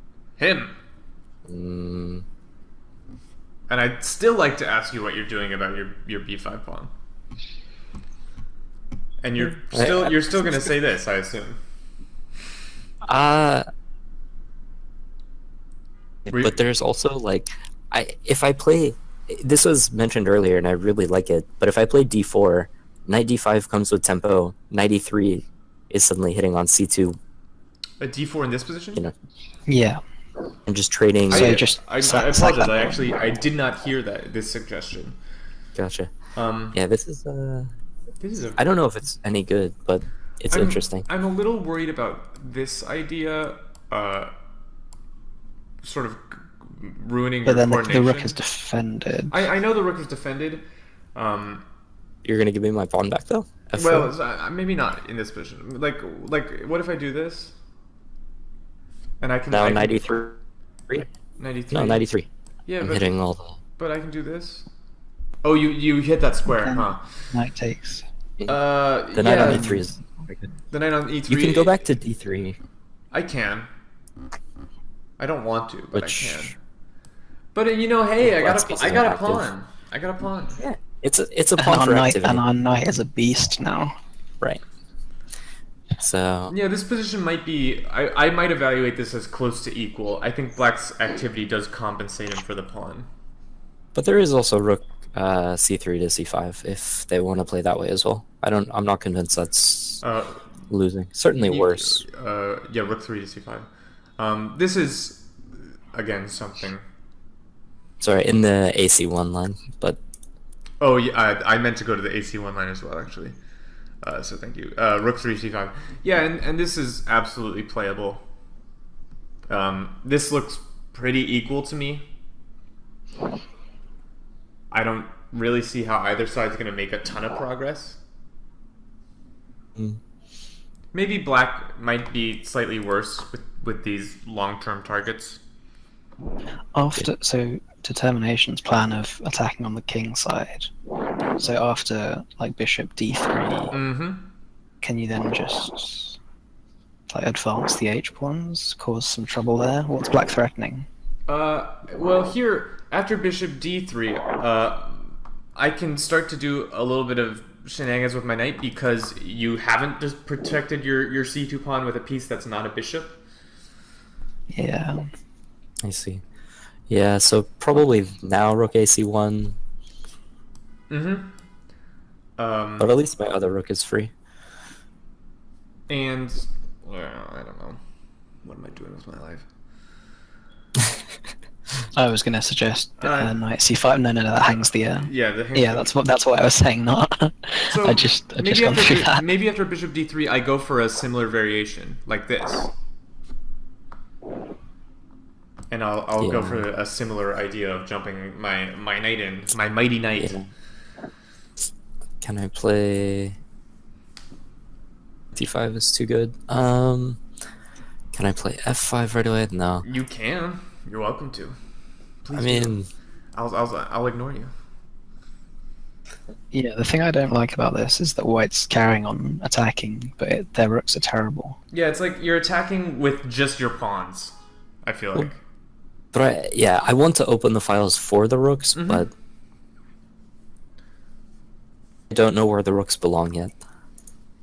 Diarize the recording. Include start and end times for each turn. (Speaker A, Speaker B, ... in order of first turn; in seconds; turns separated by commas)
Speaker A: 0.4-0.7, Speaker B: 1.5-2.2, Speaker A: 3.7-6.9, Speaker A: 9.2-11.6, Speaker B: 9.6-10.3, Speaker B: 13.1-13.7, Speaker B: 16.3-27.2, Speaker A: 16.3-16.5, Speaker A: 28.0-29.1, Speaker C: 29.7-30.0, Speaker B: 30.7-31.6, Speaker A: 31.3-35.1, Speaker C: 31.3-33.0, Speaker B: 35.7-36.1, Speaker A: 36.3-36.8, Speaker B: 36.7-37.7, Speaker A: 38.2-38.6, Speaker B: 38.6-41.1, Speaker A: 40.5-44.3, Speaker A: 45.8-48.4, Speaker C: 47.5-49.3, Speaker A: 49.3-50.6, Speaker A: 51.1-51.6, Speaker B: 52.2-54.1, Speaker A: 53.7-57.5, Speaker A: 59.2-60.0, Speaker B: 59.5-61.1, Speaker A: 61.4-62.0, Speaker B: 61.7-62.3, Speaker A: 62.7-63.1, Speaker B: 62.8-63.6, Speaker A: 63.8-64.7, Speaker A: 65.4-67.1, Speaker C: 66.5-68.0, Speaker A: 68.5-69.8, Speaker B: 69.1-70.5, Speaker C: 69.3-69.8, Speaker A: 70.7-71.8, Speaker B: 71.3-72.6, Speaker A: 73.1-73.7, Speaker A: 75.2-76.6, Speaker C: 75.9-76.3, Speaker A: 77.5-80.6, Speaker B: 78.2-79.5, Speaker B: 80.6-82.4, Speaker C: 81.6-83.9, Speaker B: 86.0-86.5, Speaker A: 86.5-93.1, Speaker B: 93.9-100.0, Speaker A: 100.0-100.4, Speaker B: 100.7-102.0, Speaker A: 101.4-103.7, Speaker A: 104.2-105.3, Speaker A: 105.9-106.8, Speaker B: 108.0-110.0, Speaker A: 110.8-113.3, Speaker A: 114.0-118.2, Speaker A: 119.5-122.1, Speaker A: 124.7-128.0, Speaker A: 130.9-135.4, Speaker C: 136.7-140.7, Speaker C: 141.4-143.7, Speaker A: 143.7-144.2, Speaker C: 144.8-146.2, Speaker C: 147.1-150.9, Speaker A: 151.3-163.2, Speaker C: 164.5-165.0, Speaker B: 165.8-166.2, Speaker B: 166.9-169.6, Speaker A: 170.9-171.3, Speaker A: 172.4-172.9, Speaker B: 172.8-174.1, Speaker A: 175.9-177.8, Speaker A: 178.4-179.5, Speaker C: 181.9-189.2, Speaker A: 183.0-183.4, Speaker A: 184.4-185.9, Speaker A: 187.7-192.7, Speaker A: 195.7-200.4, Speaker B: 196.2-196.7, Speaker B: 200.1-200.4, Speaker B: 202.2-203.3, Speaker B: 205.3-207.2, Speaker B: 208.1-209.8, Speaker A: 209.8-211.5, Speaker A: 212.2-212.8, Speaker B: 212.3-212.9, Speaker A: 213.3-214.5, Speaker C: 216.5-221.6, Speaker A: 221.7-225.4, Speaker B: 226.1-229.1, Speaker A: 228.7-229.1, Speaker B: 232.1-233.5